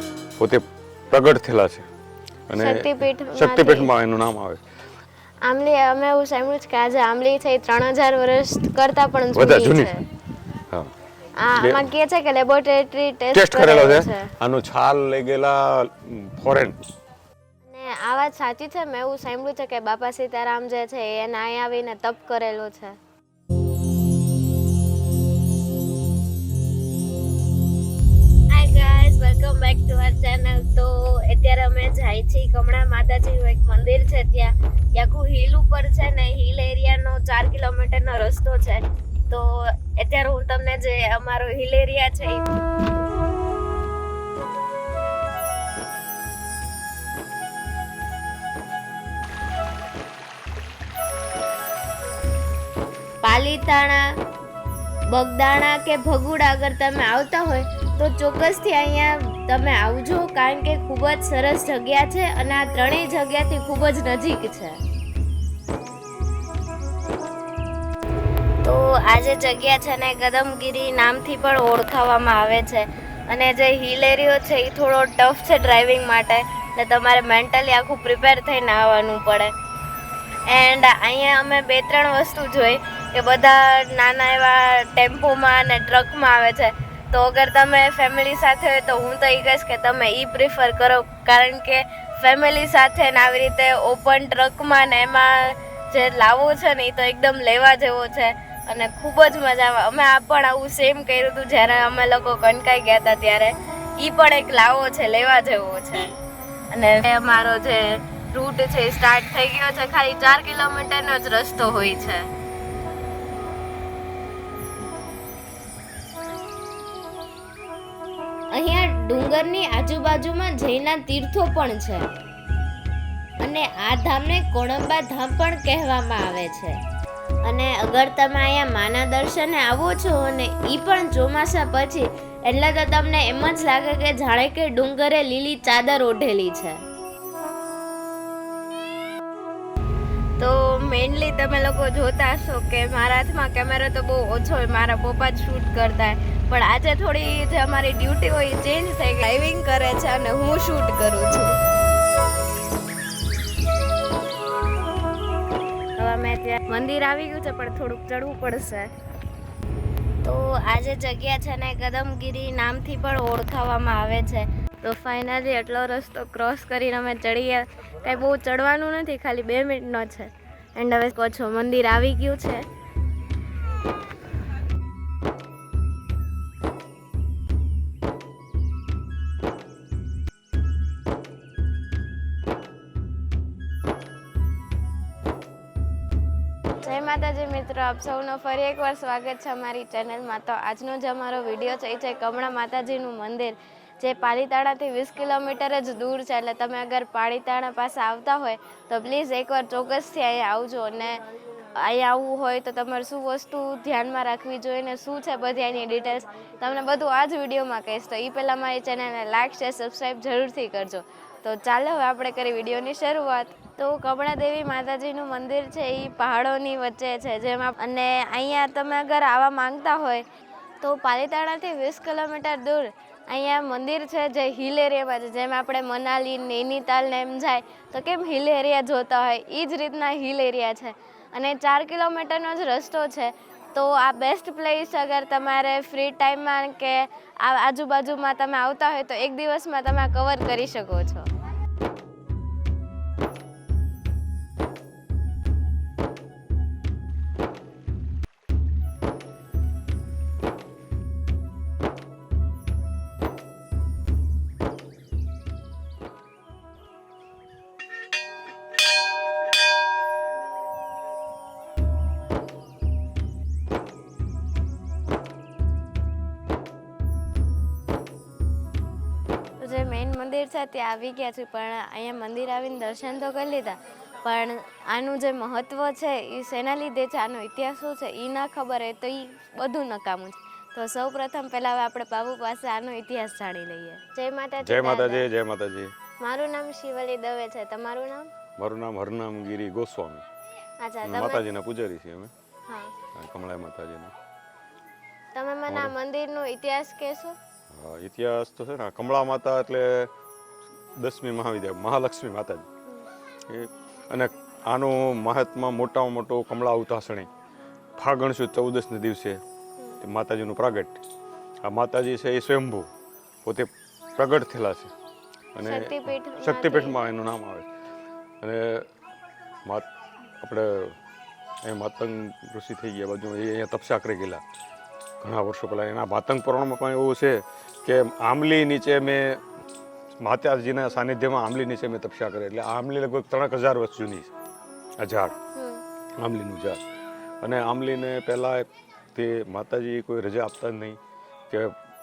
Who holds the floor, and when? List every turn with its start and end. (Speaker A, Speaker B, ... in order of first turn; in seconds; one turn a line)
Speaker A: 0.4-1.9
Speaker A: 2.5-4.6
Speaker B: 2.5-3.9
Speaker B: 5.5-10.0
Speaker A: 9.3-9.9
Speaker B: 11.4-14.3
Speaker A: 13.3-16.8
Speaker B: 17.6-23.0
Speaker B: 28.5-42.5
Speaker B: 53.2-54.0
Speaker B: 55.1-64.8
Speaker B: 68.6-79.5
Speaker B: 80.5-106.1
Speaker B: 106.7-112.3
Speaker B: 118.5-122.1
Speaker B: 123.4-126.8
Speaker B: 127.4-136.8
Speaker B: 140.4-151.6
Speaker B: 156.0-158.9
Speaker B: 160.2-172.7
Speaker B: 186.8-201.2
Speaker B: 201.7-220.2
Speaker B: 220.8-241.3
Speaker B: 269.6-285.3
Speaker A: 284.6-285.9
Speaker B: 286.2-288.3
Speaker A: 288.6-290.2
Speaker B: 290.8-291.4
Speaker A: 291.0-292.3
Speaker B: 292.7-292.9
Speaker A: 293.1-294.1
Speaker B: 295.3-297.4
Speaker A: 295.7-295.9
Speaker A: 297.7-300.1
Speaker A: 301.0-302.7
Speaker A: 303.5-307.3
Speaker A: 308.0-309.4
Speaker A: 310.0-311.0
Speaker A: 311.6-312.9
Speaker A: 313.4-314.9
Speaker A: 315.6-317.7
Speaker B: 315.6-317.0
Speaker A: 318.4-318.9
Speaker A: 320.4-321.0
Speaker A: 321.6-324.4
Speaker A: 325.2-329.4
Speaker A: 330.2-334.3
Speaker A: 335.0-335.4
Speaker B: 335.6-335.8
Speaker A: 336.2-336.8
Speaker A: 337.4-341.0
Speaker A: 341.5-341.8